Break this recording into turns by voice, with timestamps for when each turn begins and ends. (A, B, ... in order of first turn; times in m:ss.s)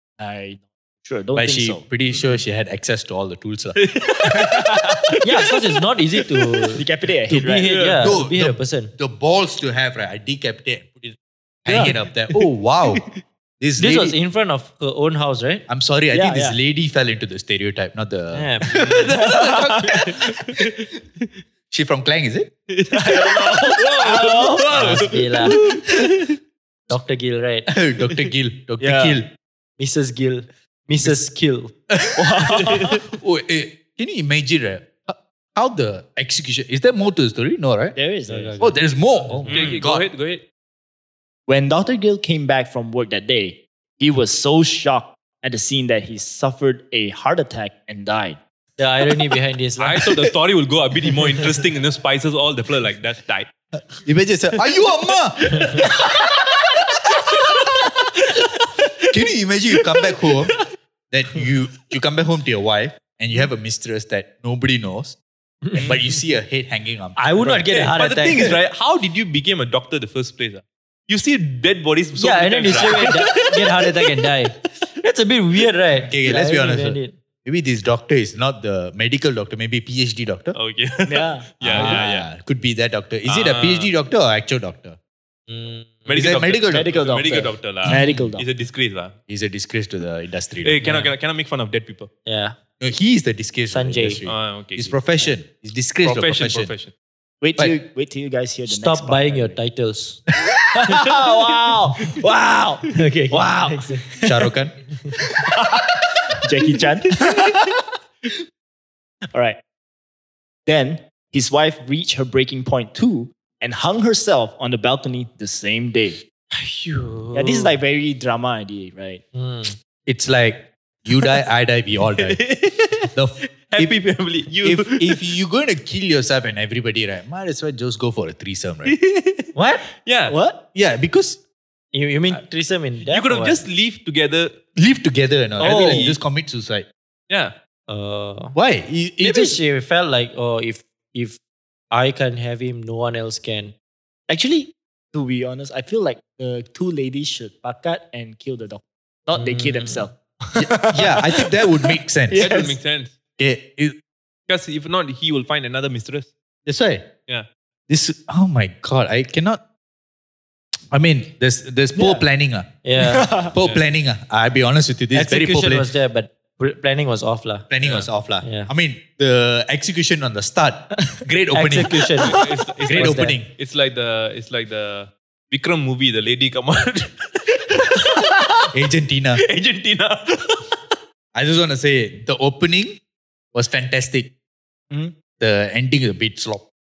0:00.2-0:01.8 A
0:01.4-0:03.8 B
0:03.8-0:05.5 C
0:04.4-0:05.1 A
0:05.2-0:08.9 D
0:06.8-0:07.7 A
0:07.6-0:08.1 C
0:08.0-0:13.0 B
0:11.7-0:11.9 A
0:12.3-0:13.2 C
0:13.6-0:14.2 B
0:13.8-0:15.6 D
0:15.7-0:20.3 B
0:16.1-0:16.6 A
0:18.3-0:19.0 D
0:18.7-0:20.9 C
0:19.2-0:20.1 A
0:21.7-0:22.5 B
0:22.7-0:26.3 C
0:22.9-0:25.0 A
0:24.7-0:25.6 D
0:26.9-0:27.7 D
0:27.7-0:29.3 B
0:28.8-0:29.2 A
0:29.8-0:31.7 D
0:31.9-0:38.0 B
0:32.2-0:33.0 A
0:32.5-0:33.0 C
0:38.0-0:38.7 A
0:38.3-0:39.8 D
0:38.6-0:40.0 B
0:39.4-0:39.7 A
0:39.5-0:40.4 C
0:41.5-0:48.4 A
0:48.8-0:50.1 D
0:49.8-0:53.5 C
0:54.0-0:56.0 B
0:59.1-1:00.6 B
1:01.1-1:05.2 B
1:05.6-1:05.9 D
1:05.8-1:07.6 B
1:07.2-1:08.6 D
1:07.6-1:13.9 C
1:12.2-1:17.2 D
1:16.1-1:20.6 B
1:20.5-1:22.3 C
1:21.1-1:22.0 A
1:21.6-1:25.0 B
1:23.3-1:23.9 C
1:25.5-1:26.1 D
1:26.1-1:29.2 C
1:26.1-1:27.0 B
1:26.7-1:28.4 A
1:27.9-1:28.3 D
1:29.3-1:30.8 B
1:30.6-1:32.1 C
1:30.8-1:31.1 D
1:32.2-1:32.6 D
1:32.8-1:36.7 B
1:33.7-1:34.2 D
1:34.2-1:35.0 C
1:36.0-1:36.9 C
1:37.4-1:39.6 A
1:38.7-1:40.2 D
1:40.8-1:44.5 A
1:42.9-1:44.1 D
1:44.2-1:44.8 B
1:45.5-1:47.7 A
1:49.3-1:49.6 A
1:50.7-1:56.2 A
1:56.5-1:57.8 D
1:57.3-1:59.2 A
1:59.3-1:59.8 D
2:00.1-2:02.6 B
2:02.2-2:05.3 C
2:03.1-2:04.0 B
2:04.6-2:09.0 B
2:08.8-2:10.4 C
2:09.6-2:09.8 D
2:10.3-2:10.6 A
2:10.8-2:11.4 B
2:11.9-2:13.6 D
2:13.0-2:14.6 C
2:14.8-2:16.9 B
2:15.6-2:16.2 C
2:15.6-2:16.0 A
2:17.9-2:18.6 D
2:18.6-2:19.6 B
2:19.2-2:21.4 D
2:21.9-2:23.7 D
2:24.3-2:32.8 A
2:29.4-2:30.1 D
2:30.6-2:32.5 B
2:32.3-2:33.2 C
2:33.4-2:34.0 B
2:34.5-2:36.3 C
2:36.7-2:37.1 B
2:37.9-2:39.6 B
2:40.9-2:42.8 B
2:42.0-2:42.2 A
2:42.8-2:43.3 D
2:43.0-2:43.6 A
2:43.4-2:45.9 B
2:45.1-2:47.7 D
2:47.7-2:52.2 B
2:47.8-2:48.1 C
2:48.4-2:48.7 D
2:51.5-2:52.4 D
2:52.2-2:58.7 C
2:52.8-2:53.5 B
2:52.9-2:53.4 D
2:58.7-2:59.4 B
2:59.4-3:00.8 C
3:01.3-3:03.0 B
3:03.5-3:04.3 B
3:05.4-3:06.7 B